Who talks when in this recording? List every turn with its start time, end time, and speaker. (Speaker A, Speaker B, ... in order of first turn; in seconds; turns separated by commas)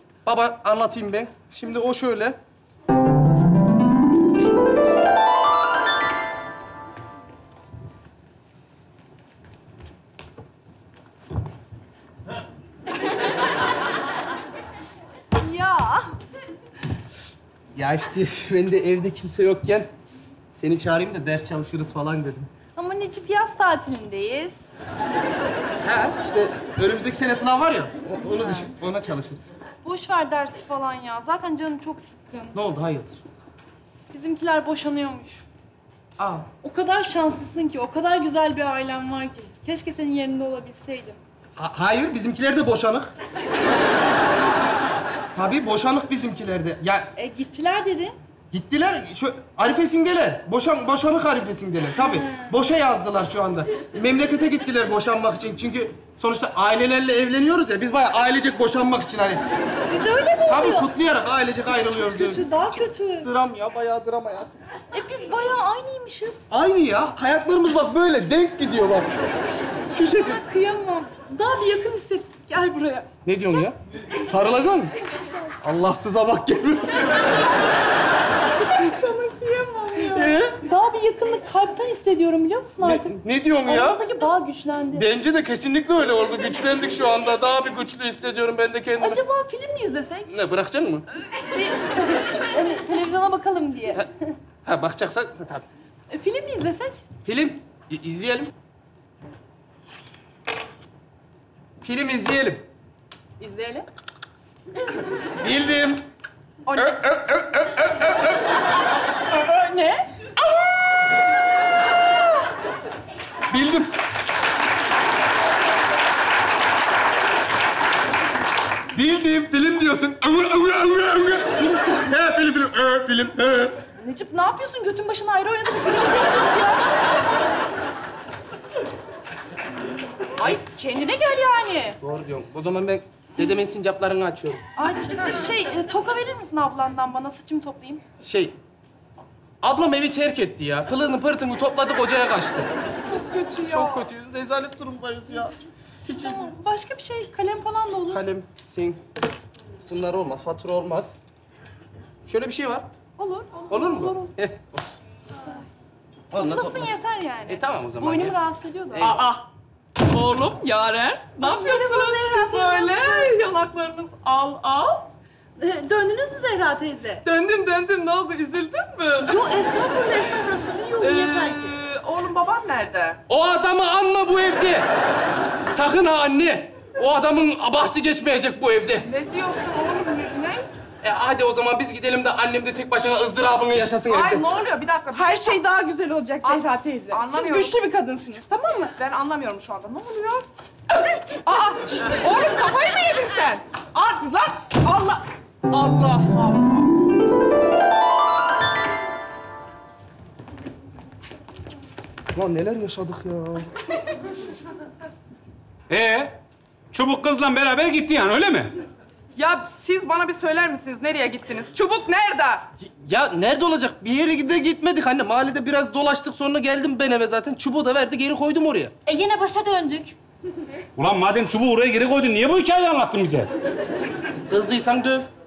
Speaker A: 0.2-2.4, Speaker B: 15.4-16.1, Speaker A: 17.8-19.9, Speaker A: 20.6-22.5, Speaker B: 22.8-24.6, Speaker A: 25.8-29.5, Speaker B: 28.2-28.7, Speaker B: 29.8-32.6, Speaker A: 32.5-33.2, Speaker B: 34.1-35.4, Speaker A: 36.2-36.5, Speaker B: 36.6-41.2, Speaker A: 41.6-43.1, Speaker A: 45.3-47.1, Speaker B: 47.2-48.1, Speaker A: 48.5-59.4, Speaker B: 59.8-60.9, Speaker A: 60.5-64.6, Speaker B: 62.1-63.3, Speaker B: 64.9-66.5, Speaker A: 66.5-69.1, Speaker B: 69.9-73.6, Speaker A: 73.2-74.9, Speaker A: 75.6-77.3, Speaker B: 78.7-85.1, Speaker A: 80.0-80.6, Speaker A: 82.8-84.0, Speaker A: 84.9-89.2, Speaker B: 89.0-90.3, Speaker A: 90.3-91.0, Speaker B: 91.6-94.1, Speaker A: 94.7-95.6, Speaker B: 96.1-97.0, Speaker A: 97.2-98.5, Speaker A: 101.8-102.6, Speaker B: 103.4-103.8, Speaker A: 105.4-106.0, Speaker A: 106.7-108.4, Speaker A: 113.5-113.9, Speaker A: 118.9-123.8, Speaker B: 124.0-126.8, Speaker B: 130.4-132.0, Speaker A: 132.0-134.6, Speaker B: 134.8-138.0, Speaker A: 138.2-138.6, Speaker A: 139.6-142.7, Speaker B: 143.1-144.0, Speaker A: 143.7-145.5, Speaker A: 146.1-146.5, Speaker B: 146.1-148.2, Speaker A: 148.1-149.0, Speaker A: 149.9-151.2, Speaker A: 152.3-152.9, Speaker B: 153.2-154.2, Speaker A: 153.7-154.6, Speaker A: 156.3-157.0, Speaker B: 156.3-159.1, Speaker A: 157.5-158.4, Speaker A: 158.9-159.2, Speaker C: 158.9-159.4, Speaker C: 160.1-165.1, Speaker B: 161.4-163.3, Speaker B: 165.6-167.2, Speaker C: 167.2-169.4, Speaker B: 169.3-171.7, Speaker C: 171.0-173.2, Speaker A: 173.3-174.9, Speaker A: 175.7-179.1, Speaker C: 179.1-180.7, Speaker A: 181.0-184.4, Speaker C: 183.9-185.6, Speaker B: 185.2-188.2, Speaker C: 186.4-190.4, Speaker C: 191.5-196.6, Speaker A: 202.3-203.7, Speaker D: 205.9-206.4, Speaker D: 206.9-208.7, Speaker C: 209.4-212.6, Speaker A: 212.8-218.9, Speaker B: 219.1-220.2, Speaker D: 221.0-223.5, Speaker A: 224.5-225.3